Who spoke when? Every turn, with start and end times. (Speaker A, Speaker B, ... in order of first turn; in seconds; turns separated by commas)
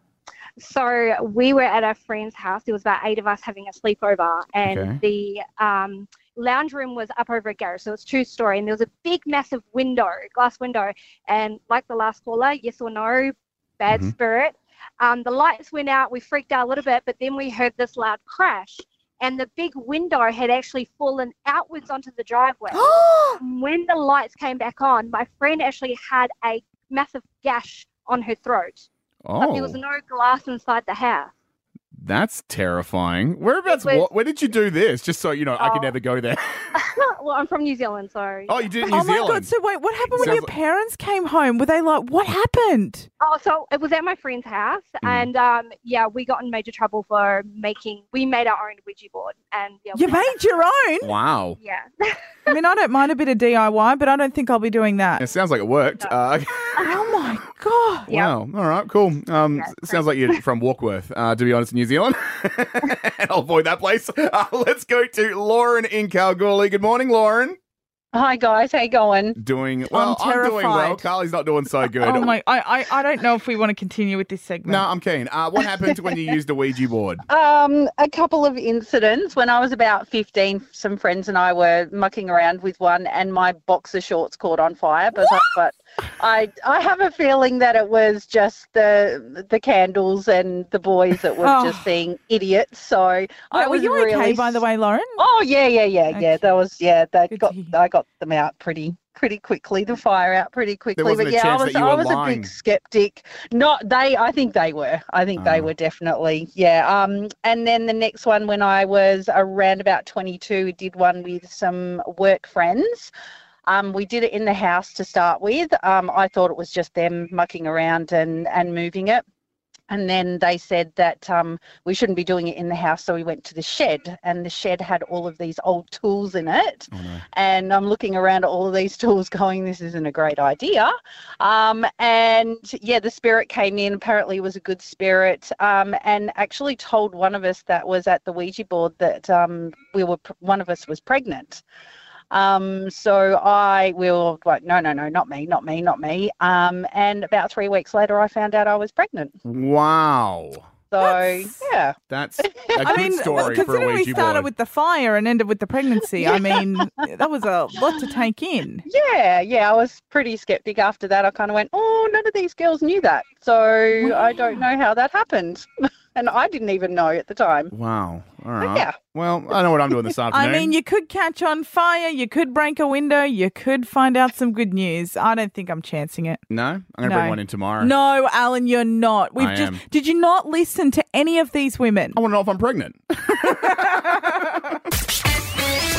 Speaker A: 0.6-22.9, Speaker B: 4.6-5.0, Speaker C: 22.7-23.4, Speaker A: 23.4-28.9, Speaker B: 29.2-29.8, Speaker A: 29.4-31.3, Speaker B: 31.9-36.8, Speaker A: 33.6-34.1, Speaker A: 35.6-35.9, Speaker A: 36.8-38.9, Speaker B: 38.5-39.5, Speaker C: 38.9-43.1, Speaker B: 40.1-40.5, Speaker A: 43.2-50.4, Speaker B: 45.0-45.3, Speaker C: 50.0-51.1, Speaker B: 51.0-51.6, Speaker A: 51.6-52.5, Speaker C: 52.5-55.2, Speaker B: 55.2-57.0, Speaker C: 56.8-58.1, Speaker B: 58.1-67.6, Speaker A: 58.1-58.3, Speaker A: 59.6-60.4, Speaker D: 68.1-69.4, Speaker B: 69.3-72.3, Speaker C: 69.9-71.1, Speaker C: 71.9-74.8, Speaker B: 74.7-77.2, Speaker D: 77.3-94.6, Speaker C: 91.4-91.9, Speaker C: 93.5-95.2, Speaker D: 95.2-113.1, Speaker C: 96.1-96.5, Speaker C: 97.3-97.7, Speaker B: 101.0-102.5, Speaker B: 105.4-105.7, Speaker D: 113.7-119.2, Speaker D: 119.9-141.6, Speaker B: 126.9-127.2, Speaker D: 142.3-149.3, Speaker B: 149.4-150.7, Speaker D: 150.9-153.0, Speaker C: 151.0-151.6, Speaker B: 152.1-154.5, Speaker C: 152.8-158.8, Speaker D: 156.2-156.8, Speaker D: 158.8-167.7, Speaker B: 167.7-170.7, Speaker D: 168.6-168.9, Speaker C: 170.3-176.4, Speaker B: 176.5-177.9, Speaker C: 177.0-182.2, Speaker B: 179.4-179.8, Speaker B: 182.1-184.8, Speaker C: 183.4-184.4